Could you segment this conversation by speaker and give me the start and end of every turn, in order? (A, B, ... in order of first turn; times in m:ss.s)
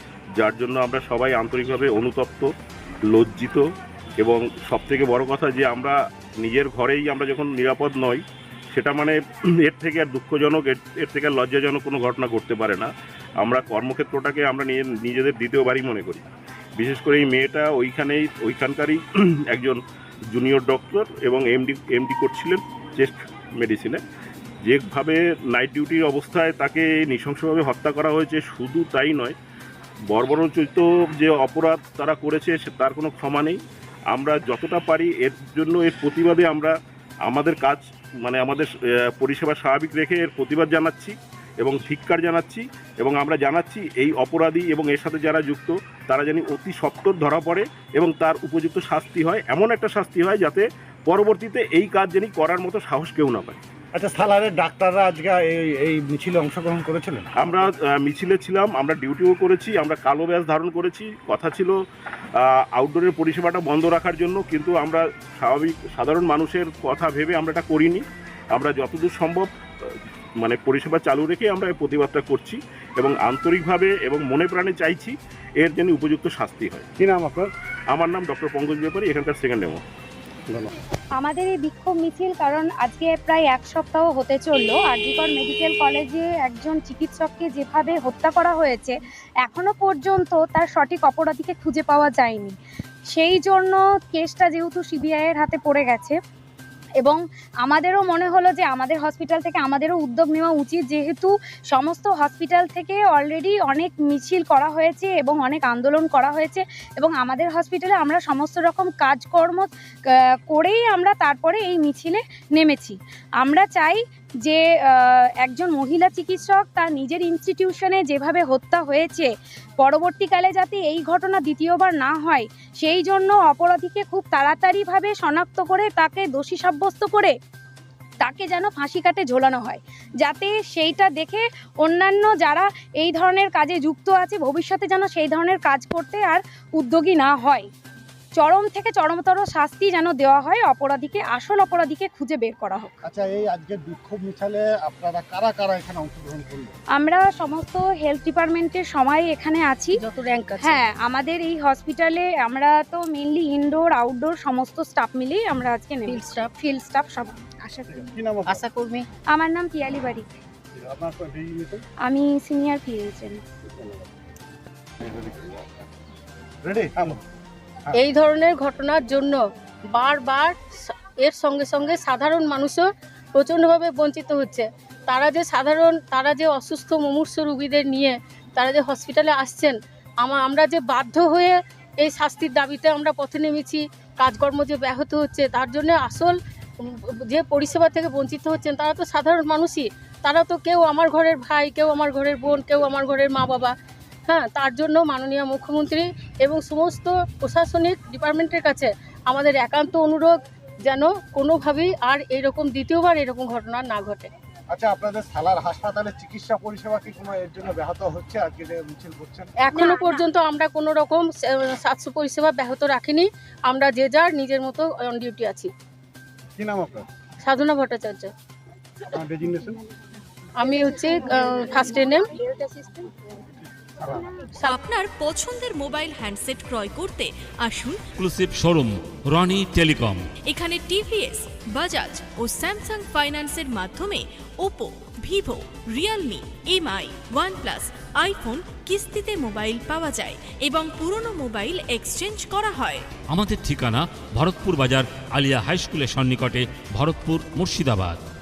0:00.4-0:02.5 A
0:03.1-0:03.6 A
0:04.2-0:12.9 A
0:13.4-0:19.0 A
0:19.5-0:19.8 A
0:20.3-0:24.0 A
0:24.6-0:29.4 A
0:30.1-0:33.6 A
0:34.1-0:36.7 A
0:37.3-0:38.7 A
0:39.2-0:53.6 A
0:53.9-0:57.3 B
0:57.4-1:01.7 A
1:02.8-1:08.0 A
1:08.5-1:09.5 A
1:10.4-1:16.9 A
1:17.0-1:17.5 B
1:17.9-1:19.8 A
1:21.2-1:32.5 C
1:33.1-1:36.2 C
1:37.0-2:07.3 C
2:08.2-2:17.7 C
2:18.3-2:23.0 C
2:23.0-2:26.7 B
2:26.9-2:30.0 C
2:29.9-2:30.8 D
2:30.6-2:37.5 C
2:36.1-2:36.5 D
2:37.9-2:38.6 B
2:38.5-2:39.0 D
2:39.3-2:40.3 C
2:40.7-2:41.8 B
2:42.0-2:43.4 C
2:43.7-2:44.1 B
2:45.0-2:45.6 B
2:46.6-2:47.2 B
2:48.0-2:49.4 D
2:49.9-3:13.7 D
3:14.3-3:20.3 D
3:20.8-3:24.3 D
3:24.7-3:29.6 B
3:29.6-3:35.7 D
3:36.6-3:37.0 B
3:37.4-3:38.3 D
3:39.1-3:39.8 B
3:40.6-3:42.3 D
3:43.9-3:44.3 B
3:44.6-3:48.0 E
3:48.2-3:50.3 F
3:50.4-4:03.0 E
4:03.3-4:08.2 F